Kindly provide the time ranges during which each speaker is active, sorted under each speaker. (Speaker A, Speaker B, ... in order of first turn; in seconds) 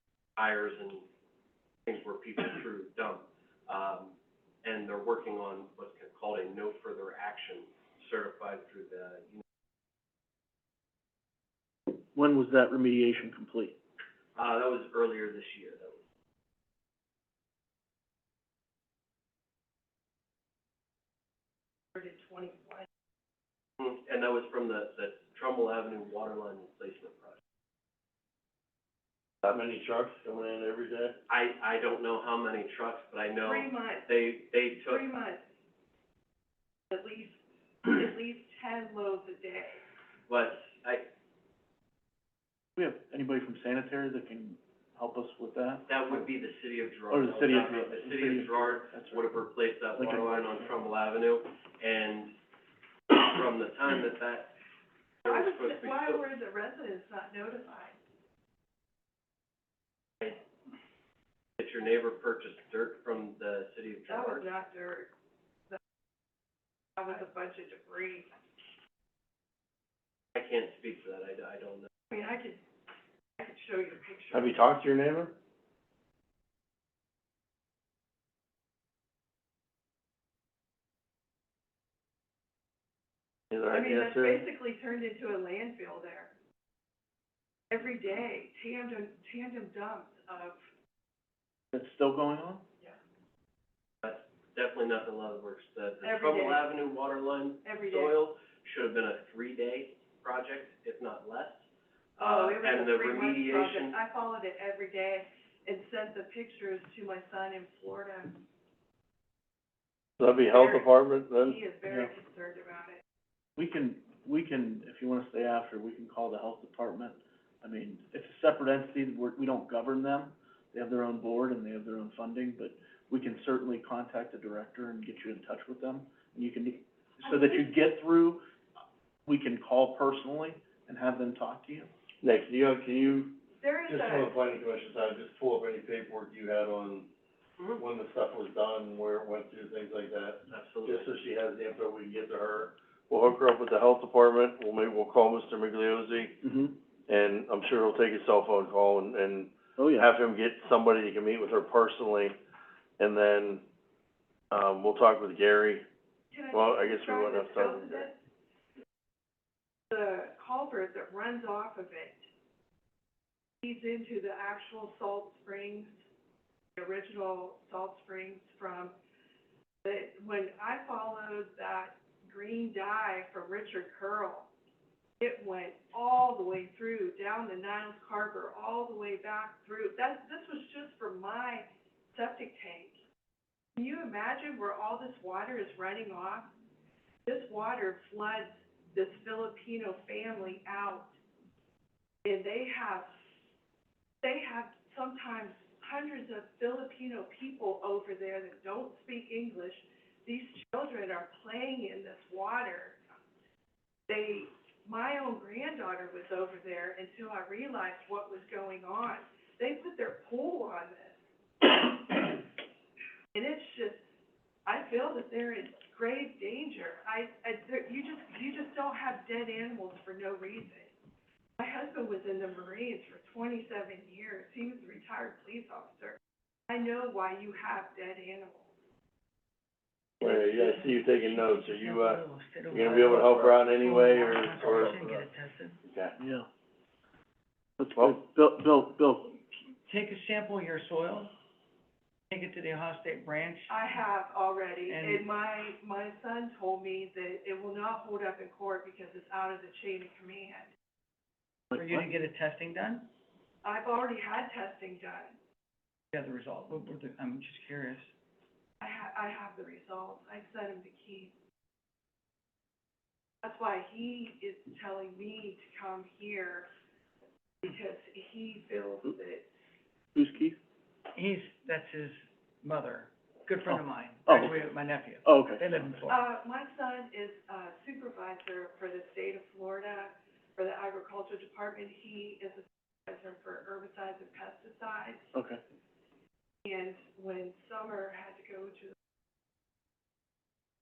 Speaker A: 0.3-1.1, 1.9-9.4, 14.3-16.0, 23.8-27.4, 31.3-35.0, 40.3-41.1, 45.9-52.3, 53.1-54.5, 55.2-56.2, 61.6-64.5, 70.3-71.9, 94.0-101.6, 102.2-104.0, 140.5-141.1
Speaker B: 11.9-13.8, 42.8-46.2, 47.1-49.3, 50.0-50.6, 91.7-92.6, 113.6-128.4, 129.2-131.9, 146.4-146.8, 149.8-150.1, 236.2-236.5, 237.8-239.3, 251.7-252.0, 270.1-270.6, 273.7-274.6, 275.2-275.6, 285.3-285.6
Speaker C: 21.9-22.9, 33.4-34.1, 34.8-35.4, 36.9-39.8, 55.2-58.0, 64.1-65.1, 67.0-68.3, 72.1-72.6, 73.4-74.6, 83.7-86.3, 87.7-90.6, 96.0-96.7, 97.6-98.2, 102.2-108.4, 110.4-113.0, 127.2-127.7, 133.6-134.3, 156.3-158.2, 159.9-162.2, 163.6-165.9, 166.8-168.9, 169.8-174.5, 175.2-183.0, 183.8-186.5, 187.2-191.1, 192.2-193.1, 194.2-203.0, 204.1-212.4, 213.3-214.0, 214.7-220.9, 221.6-226.2, 226.7-228.7, 243.7-250.7, 253.6-255.3, 258.8-261.3, 263.4-266.7, 267.6-269.5, 276.1-285.3, 286.6-288.9
Speaker D: 29.4-31.2, 74.3-75.3, 83.5-84.4, 110.2-111.6, 132.2-137.1, 137.8-146.4, 147.1-152.3, 153.0-153.6, 154.5-155.8, 156.5-158.1, 230.2-235.2, 235.9-236.1
Speaker E: 230.2-235.8, 239.8-241.3, 242.3-243.9, 244.9-245.2, 251.7-253.1, 256.1-258.1, 271.1-276.2